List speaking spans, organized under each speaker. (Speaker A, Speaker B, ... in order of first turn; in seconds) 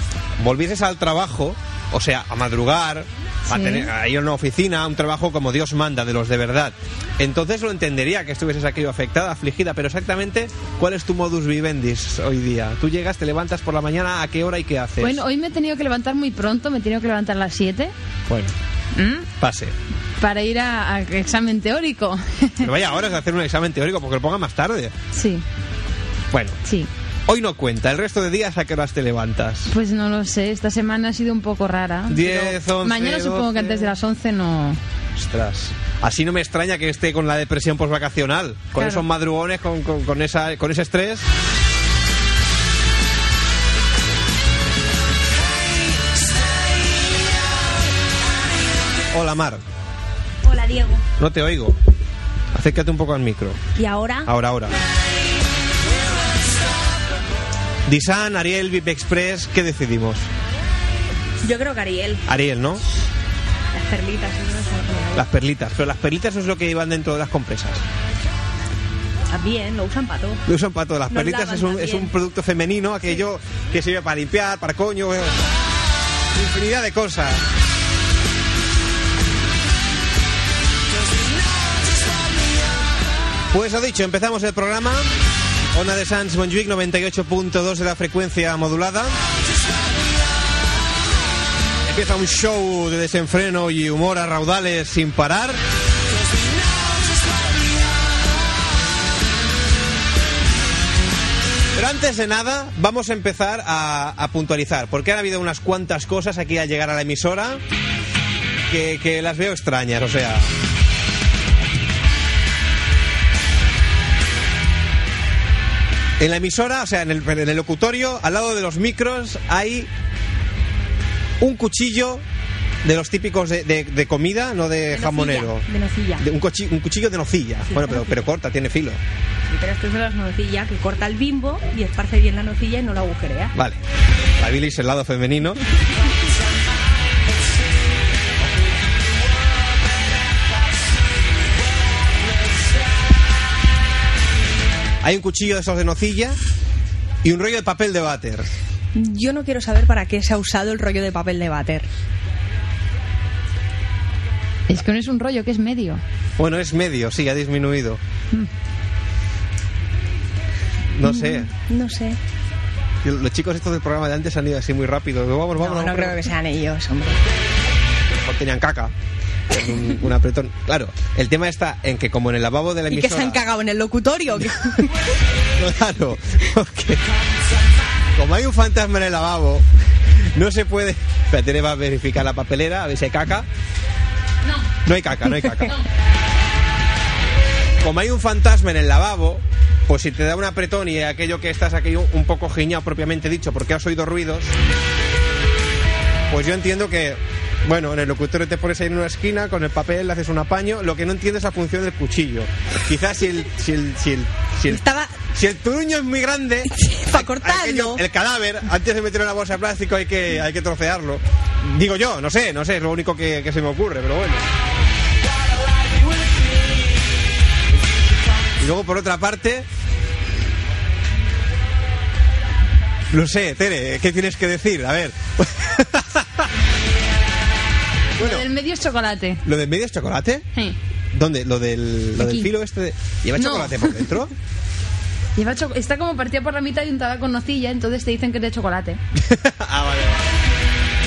Speaker A: 0.4-15.2, 18.3-18.5, 19.4-19.7, 22.6-24.9, 26.3-26.6, 27.3-29.7, 32.1-33.9, 35.1-41.3, 49.1-49.6, 51.2-51.8, 52.5-53.6, 54.2-54.8, 57.9-60.3, 62.3-62.8, 65.1-67.8, 70.5-75.4, 76.3-77.4, 83.5-85.1, 85.7-89.2, 91.8-95.6, 101.7-107.6, 108.7-110.5, 116.2-119.9, 121.4-122.2, 122.8-125.7, 126.2-129.0, 133.5-133.8, 134.4-135.6, 145.0-146.4, 147.2-148.5, 156.4-158.0, 160.9-161.5, 163.0-166.3, 168.1-168.9, 169.5-173.4, 174.4-174.8, 175.6-177.0, 178.1-179.7, 180.3-183.5, 184.8-185.7, 187.8-194.5, 196.3-214.5, 218.6-219.7, 223.1-226.5, 228.2-228.5, 229.4-230.4, 231.1-234.3, 239.2-240.2
Speaker B: 3.5-3.9, 15.0-17.9, 18.9-19.3, 20.2-22.7, 25.1-25.4, 26.6-26.9, 29.7-34.8, 38.7-39.0, 154.7-156.0, 228.2-229.4, 232.2-232.5, 233.4-234.1, 235.3-239.0
Speaker C: 50.4-51.0, 53.8-54.3, 61.4-62.2, 63.7-65.3, 69.3-70.4, 71.1-72.1, 124.9-126.2, 127.7-128.2, 129.5-133.5, 148.9-151.9, 161.0-162.2, 165.6-167.2, 172.9-174.9, 204.7-205.1, 206.7-208.0